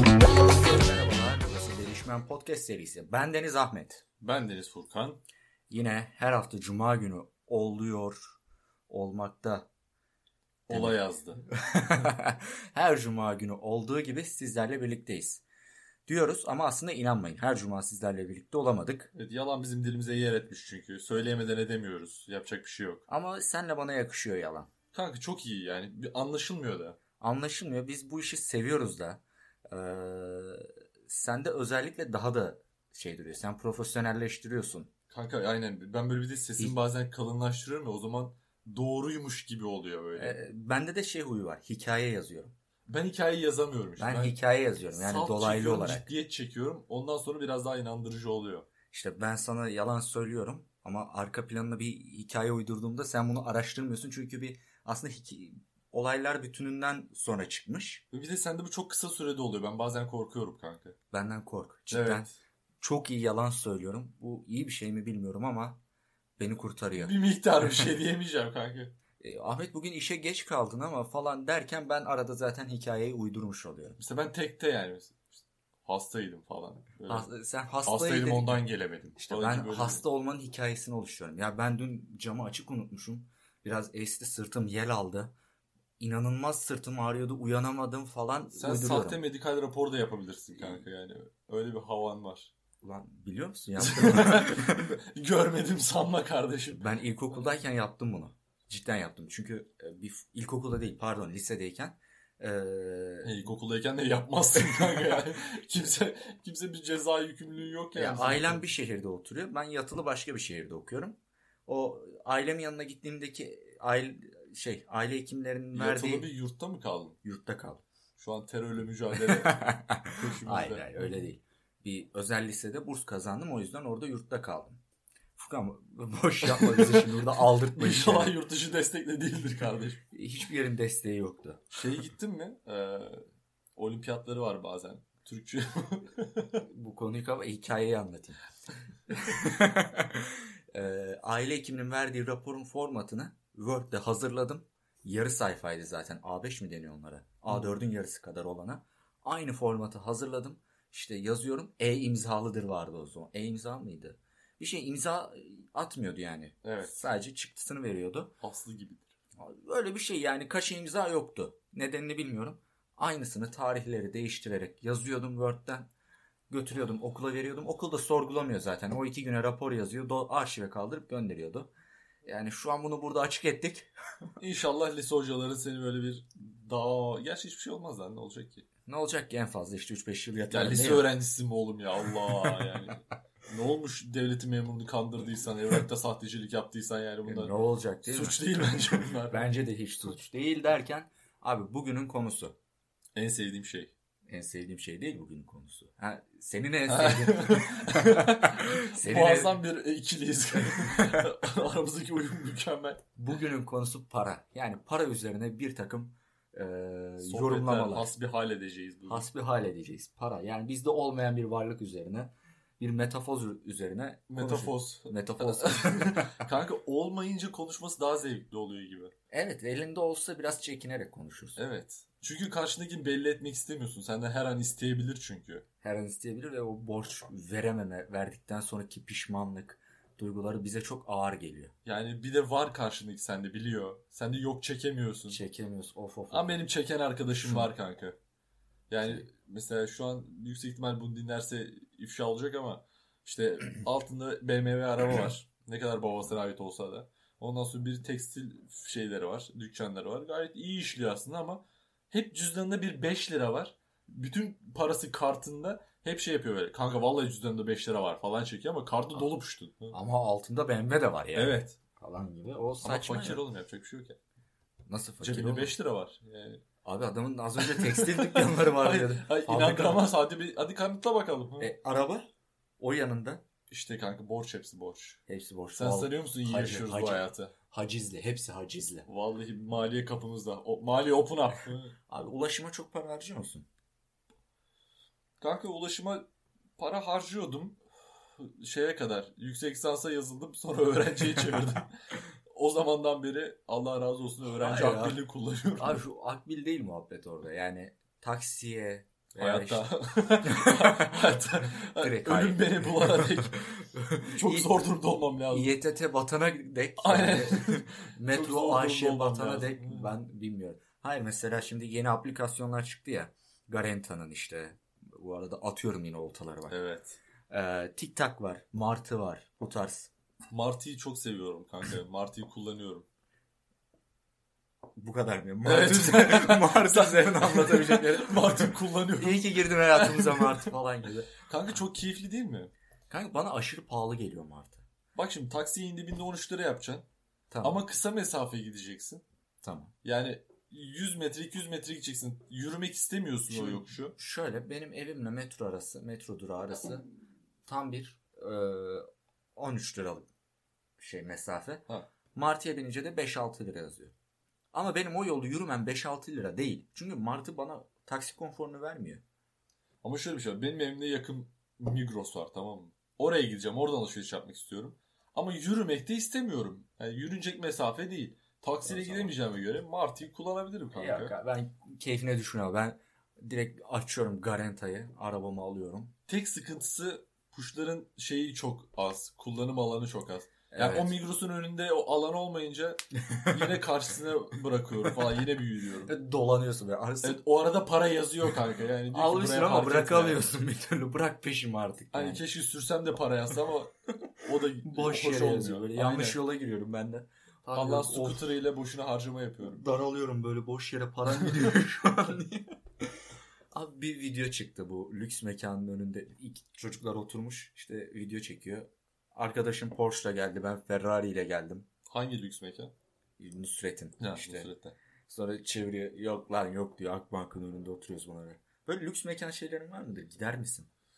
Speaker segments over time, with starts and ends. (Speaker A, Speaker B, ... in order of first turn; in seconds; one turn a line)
Speaker A: 0.4-4.0
Speaker B: 4.2-5.2
Speaker A: 5.7-8.4
Speaker A: 8.9-9.7
Speaker B: 10.7-11.4
Speaker A: 10.7-11.0
Speaker A: 11.5-15.4
Speaker A: 16.1-19.1
Speaker B: 19.1-23.0
Speaker A: 23.1-24.7
Speaker B: 24.9-27.0
Speaker A: 27.2-34.9
Speaker B: 35.1-40.4
Speaker A: 40.1-42.5
Speaker B: 42.9-44.4
Speaker A: 44.0-46.1
Speaker B: 44.9-48.7
Speaker A: 48.9-58.0
Speaker B: 58.1-60.9
Speaker A: 61.1-62.3
Speaker B: 61.9-62.3
Speaker A: 62.8-65.8
Speaker A: 66.4-67.1
Speaker B: 67.0-68.9
Speaker A: 69.2-74.0
Speaker B: 74.0-77.3
Speaker A: 77.1-78.6
Speaker B: 77.8-80.0
Speaker A: 79.2-85.3
Speaker A: 86.0-89.2
Speaker B: 88.5-92.5
Speaker A: 92.8-95.0
Speaker B: 93.8-96.9
Speaker A: 96.8-103.5
Speaker B: 103.2-108.6
Speaker A: 104.8-105.1
Speaker A: 107.9-116.3
Speaker B: 115.7-117.2
Speaker A: 117.2-117.8
Speaker B: 118.2-119.6
Speaker A: 119.3-124.8
Speaker B: 120.1-121.0
Speaker A: 125.4-128.3
Speaker B: 126.4-130.0
Speaker A: 130.1-131.7
Speaker B: 131.7-136.5
Speaker A: 136.6-138.4
Speaker A: 139.1-158.3
Speaker B: 156.6-156.9
Speaker B: 158.4-159.1
Speaker A: 159.4-165.9
Speaker A: 166.5-171.7
Speaker A: 172.2-174.3
Speaker B: 174.4-178.7
Speaker A: 178.8-181.1
Speaker B: 180.5-189.5
Speaker A: 187.2-188.4
Speaker A: 189.3-192.5
Speaker B: 193.1-193.9
Speaker A: 194.3-199.6
Speaker B: 196.9-203.0
Speaker A: 200.6-201.3
Speaker A: 203.2-208.1
Speaker B: 207.2-209.3
Speaker A: 209.1-216.4
Speaker B: 214.3-219.1
Speaker A: 219.3-221.6
Speaker B: 221.6-225.6
Speaker A: 225.8-231.7
Speaker B: 231.8-235.4
Speaker A: 235.3-236.6
Speaker B: 236.3-238.2
Speaker A: 237.4-237.7
Speaker B: 238.9-260.0
Speaker A: 259.9-263.4
Speaker B: 261.3-261.8
Speaker B: 262.8-264.2
Speaker A: 264.9-265.7
Speaker B: 265.2-266.6
Speaker A: 266.8-270.1
Speaker B: 267.6-271.7
Speaker A: 271.6-273.4
Speaker B: 273.7-275.2
Speaker A: 275.3-279.1
Speaker B: 275.8-277.5
Speaker B: 279.1-281.9
Speaker A: 282.1-283.7
Speaker B: 285.4-286.2
Speaker B: 286.8-287.8
Speaker B: 288.4-291.9
Speaker B: 292.5-296.0
Speaker A: 294.5-295.2
Speaker A: 295.8-304.8
Speaker B: 299.4-303.7
Speaker B: 304.3-305.7
Speaker A: 305.5-316.8
Speaker B: 307.0-310.1
Speaker B: 316.7-317.2
Speaker A: 317.5-320.1
Speaker B: 320.5-323.1
Speaker A: 324.9-331.3
Speaker B: 325.6-330.7
Speaker B: 331.4-332.7
Speaker A: 333.1-334.8
Speaker B: 335.1-337.1
Speaker A: 337.5-337.8
Speaker B: 337.6-339.2
Speaker A: 339.6-339.9
Speaker B: 340.0-344.1
Speaker A: 343.5-347.0
Speaker A: 347.6-350.3
Speaker A: 351.0-354.1
Speaker A: 354.7-359.2
Speaker B: 360.0-371.3
Speaker A: 368.9-369.3
Speaker A: 370.9-376.1
Speaker B: 376.3-386.1
Speaker A: 380.7-381.1
Speaker A: 386.1-387.4
Speaker B: 387.2-390.4
Speaker A: 389.1-392.4
Speaker B: 392.1-396.4
Speaker A: 394.8-398.4
Speaker B: 397.7-399.8
Speaker A: 399.7-402.8
Speaker A: 403.7-411.9
Speaker B: 412.1-412.9
Speaker A: 413.4-414.7
Speaker B: 414.2-414.9
Speaker A: 415.3-420.9